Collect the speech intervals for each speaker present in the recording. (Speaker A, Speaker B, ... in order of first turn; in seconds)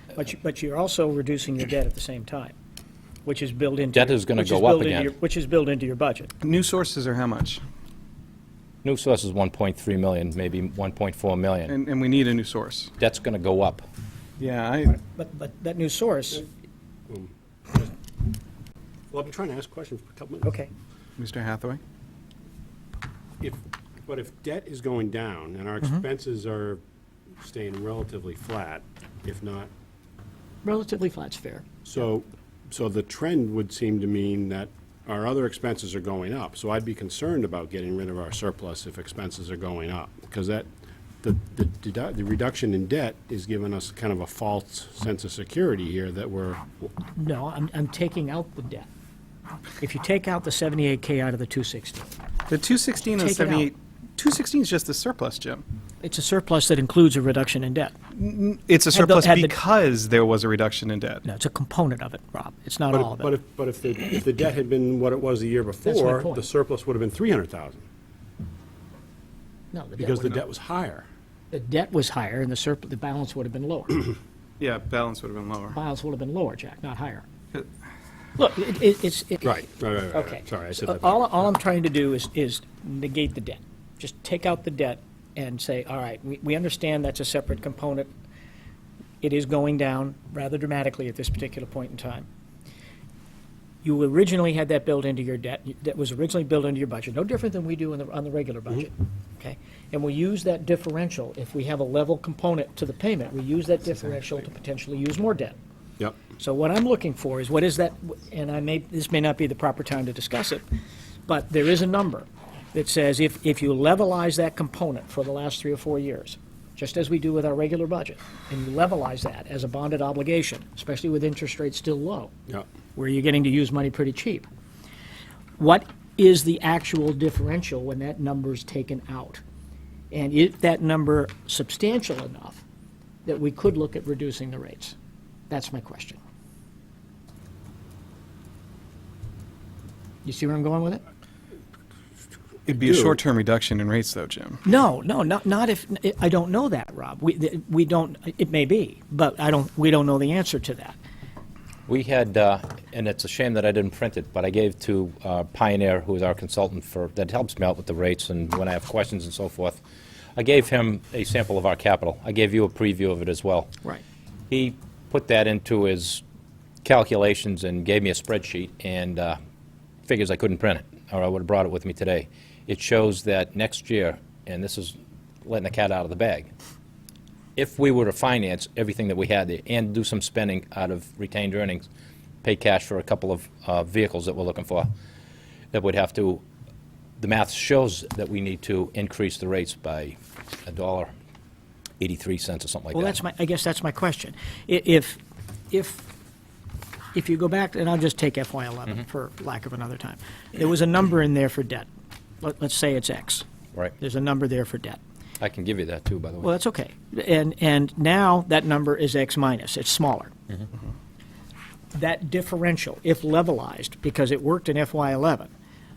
Speaker A: 0.2-2.5, 3.2-6.3, 14.9-16.5, 20.4-20.7, 30.6-31.6, 47.2-48.9, 49.8-52.1, 53.2-53.7, 56.0-58.0, 58.9-59.5, 61.3-63.3, 65.8-66.5, 69.7-70.4, 71.5-74.2, 75.7-77.3, 78.4-79.6, 80.1-88.1, 89.2-92.3, 93.8-105.6, 106.2-110.7, 111.3-122.3, 123.0-124.5, 125.6-129.4, 130.1-132.6, 133.2-135.0, 135.5-136.2, 140.2-141.0, 144.7-151.0, 192.9-196.1, 197.1-201.9, 202.4-203.5, 204.0-205.0, 206.4-210.3, 211.9-215.5
Speaker B: 3.9-5.1, 8.8-11.8, 13.0-13.8, 151.9-159.8, 160.4-163.7, 164.5-166.2, 166.8-169.4, 170.1-176.5, 177.6-181.9, 182.4-184.9, 185.7-186.4, 187.2-191.1, 192.0-193.2, 205.4-206.5
Speaker C: 6.4-7.6, 11.7-12.9, 14.4-15.0, 21.2-21.8, 52.5-55.6, 58.1-61.2, 74.6-75.8, 142.7-144.6
Speaker D: 17.1-17.9, 19.1-20.5, 23.4-26.8, 27.4-29.7, 31.9-40.7, 41.2-46.6, 62.9-67.8, 70.0-71.1, 79.4-81.4, 142.8-143.2